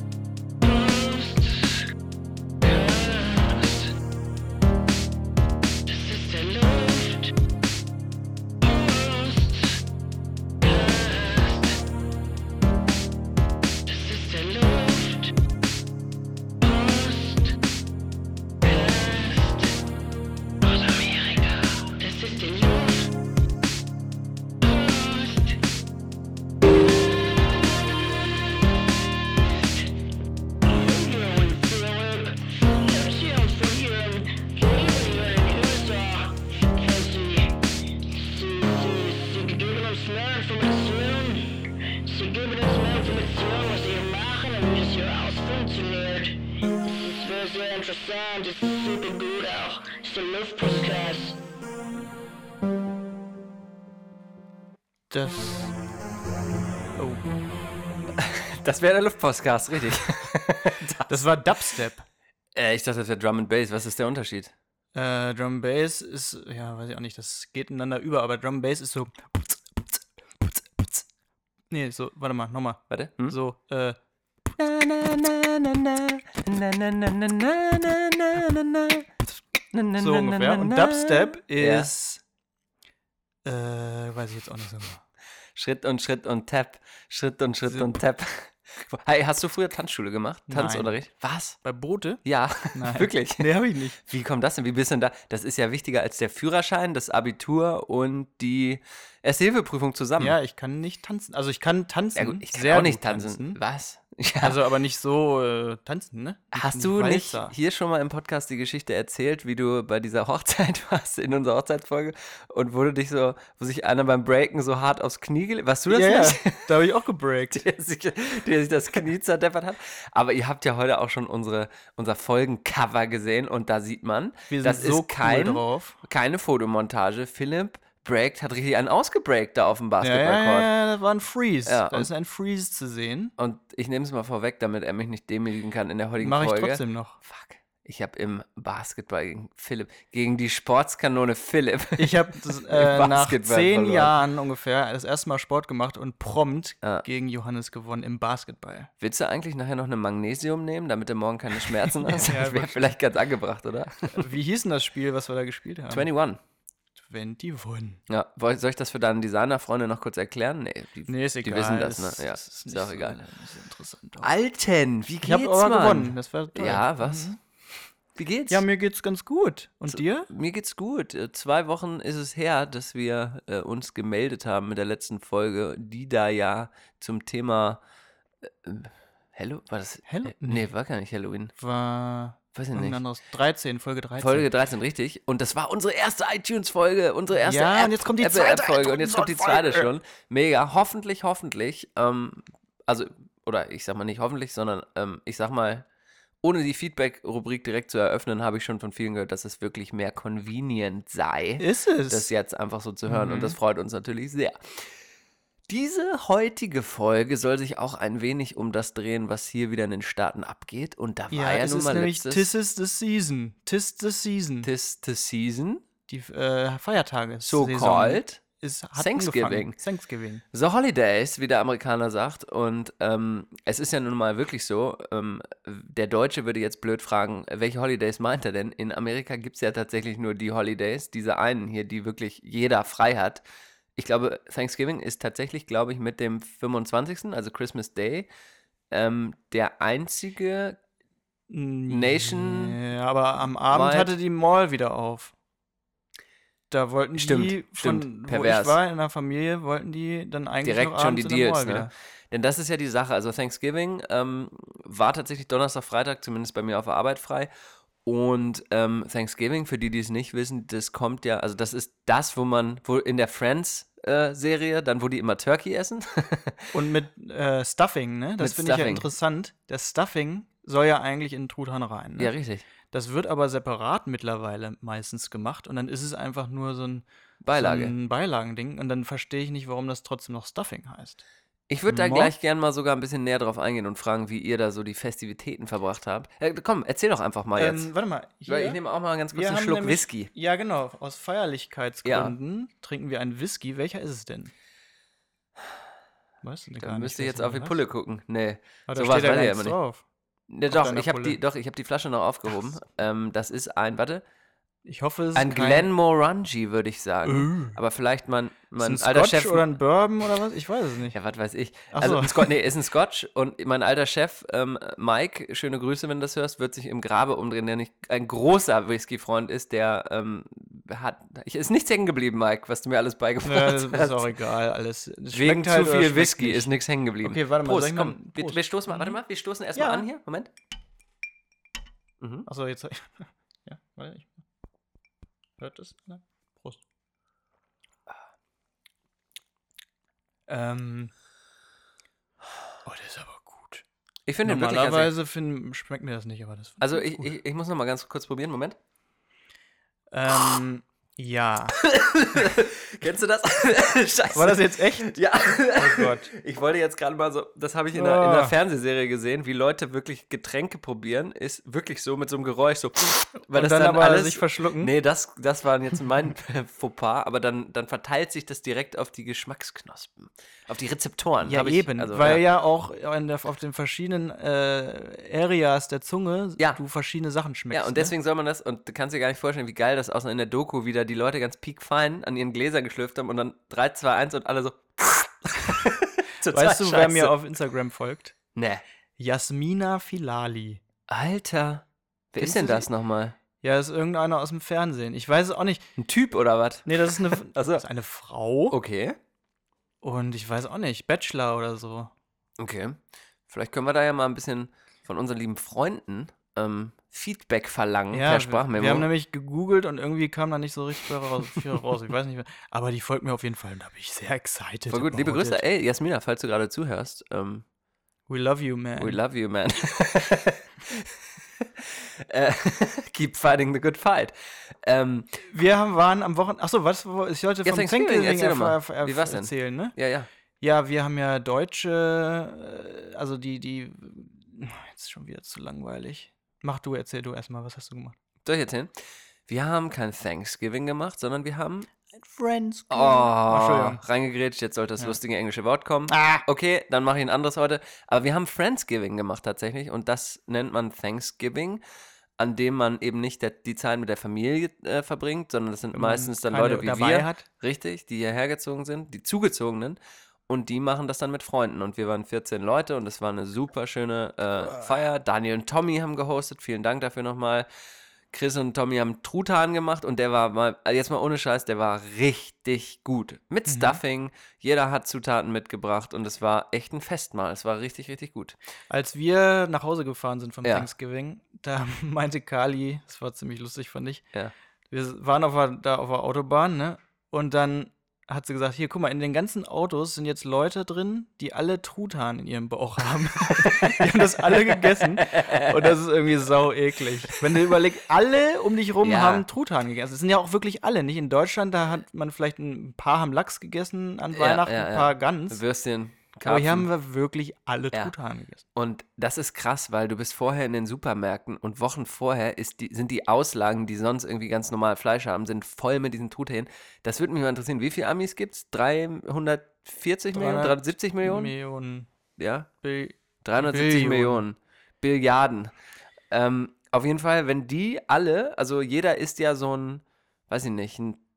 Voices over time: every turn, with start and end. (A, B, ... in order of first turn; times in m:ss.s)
0:00.6-0:01.8 A
0:02.6-0:03.9 A
0:05.9-0:07.3 A
0:08.6-0:09.8 A
0:10.6-0:11.8 A
0:13.9-0:15.3 A
0:16.6-0:17.5 A
0:18.6-0:19.7 A
0:20.6-0:23.1 A
0:24.6-0:25.6 A
0:30.6-0:51.4 A
0:55.1-0:55.7 B
0:56.9-0:57.3 B
0:58.2-1:01.3 C
1:01.1-1:02.0 B
1:02.5-1:04.5 C
1:04.9-1:11.0 B
1:11.7-1:14.0 B
1:12.9-1:13.3 C
1:14.6-1:19.1 C
1:19.7-1:21.9 C
1:20.0-1:22.2 B
1:23.4-1:25.0 B
1:25.6-1:31.6 C
1:27.6-1:27.9 B
1:30.5-1:30.9 B
1:31.6-1:32.2 B
1:32.2-1:33.5 C
1:32.7-1:34.0 B
1:34.0-1:40.4 C
1:40.2-1:43.6 B
1:42.2-1:44.6 C
1:44.4-1:47.5 B
1:46.5-1:56.7 C
1:55.9-1:57.6 B
1:57.5-2:10.7 C
2:04.5-2:06.0 B
2:10.0-2:13.3 B
2:11.6-2:12.1 C
2:13.4-2:24.2 C
2:16.2-2:17.2 B
2:22.0-2:28.9 B
2:29.0-2:34.2 C
2:31.8-2:32.9 B
2:34.1-2:36.1 B
2:35.9-2:36.4 C
2:37.0-2:38.0 B
2:38.1-2:43.2 C
2:41.1-2:44.3 B
2:44.2-2:47.3 C
2:45.2-2:47.4 B
2:48.1-2:48.6 C
2:48.5-2:50.3 B
2:49.9-2:57.8 C
2:58.4-3:01.5 C
3:00.0-3:00.7 B
3:01.6-3:04.5 B
3:02.5-3:03.0 C
3:04.2-3:15.8 C
3:07.3-3:09.9 B
3:16.4-3:25.0 C
3:21.6-3:22.3 B
3:23.0-3:23.6 B
3:25.7-3:32.5 C
3:31.3-3:34.7 B
3:34.6-3:35.8 C
3:36.1-3:40.4 B
3:37.4-3:38.4 C
3:39.0-3:39.8 C
3:40.5-3:53.4 C
3:54.0-3:58.3 C
3:58.9-4:00.8 C
4:01.5-4:05.3 B
4:01.9-4:02.8 C
4:03.7-4:04.1 C
4:06.7-4:11.9 B
4:07.1-4:08.8 C
4:10.6-4:17.5 C
4:18.0-4:26.7 C
4:26.7-4:32.3 B
4:28.4-4:29.1 C
4:32.2-4:32.6 C
4:32.9-4:41.2 B
4:37.4-4:37.9 C
4:41.7-4:47.9 C
4:41.9-4:42.3 B
4:47.5-4:48.8 B
4:48.4-4:50.3 C
4:49.3-4:54.5 B
4:52.0-4:52.3 C
4:56.4-4:57.8 B
4:56.8-4:59.7 C
4:58.9-5:00.0 B
5:00.5-5:04.2 C
5:00.7-5:01.4 B
5:04.8-5:05.9 B
5:05.3-5:09.7 C
5:07.2-5:07.8 B
5:08.8-5:11.2 B
5:11.1-5:24.3 C
5:11.9-5:12.6 B
5:23.4-5:26.7 B
5:25.3-5:30.5 C
5:27.2-5:29.2 B
5:29.7-5:30.1 B
5:32.2-5:32.5 C
5:32.4-5:34.4 B
5:35.6-5:36.8 B
5:40.5-5:41.1 B
5:42.8-5:43.8 B
5:44.2-5:45.1 C
5:44.4-5:47.3 B
5:46.8-5:48.8 C
5:50.1-5:51.8 B
5:51.8-6:12.4 C
5:54.3-5:55.2 B
5:55.8-5:56.3 B
5:57.9-5:58.5 B
6:03.5-6:04.9 B
6:11.4-6:18.1 B
6:17.7-6:27.3 C
6:26.5-6:28.4 B
6:28.5-6:28.8 C
6:29.2-6:30.8 B
6:31.1-6:33.4 C
6:32.4-6:32.9 B
6:33.6-6:35.8 B
6:36.0-6:37.8 C
6:36.8-6:38.8 B
6:38.7-6:39.2 C
6:40.0-6:42.1 B
6:42.6-6:49.1 C
6:48.1-6:55.6 B
6:54.9-6:57.6 C
6:58.3-6:59.2 B
6:59.0-7:01.1 C
7:01.6-7:05.4 C
7:05.5-7:10.0 B
7:07.6-7:10.3 C
7:10.6-7:18.1 B
7:18.4-7:18.9 C
7:19.5-7:21.9 C
7:22.1-7:24.0 B
7:22.9-7:31.8 C
7:26.1-7:26.4 B
7:32.4-7:47.7 C
7:35.9-7:37.4 B
7:48.3-7:58.6 C
7:53.7-7:54.0 B
7:58.9-8:04.2 B
8:04.9-8:25.6 B
8:13.6-8:15.9 C
8:17.2-8:17.5 C
8:19.0-8:19.4 C
8:24.3-8:26.9 C
8:26.4-8:28.6 B
8:28.7-8:41.5 C
8:40.3-8:42.1 B
8:42.4-8:42.7 C
8:42.8-8:44.4 B
8:43.4-8:45.7 C
8:46.3-8:51.2 C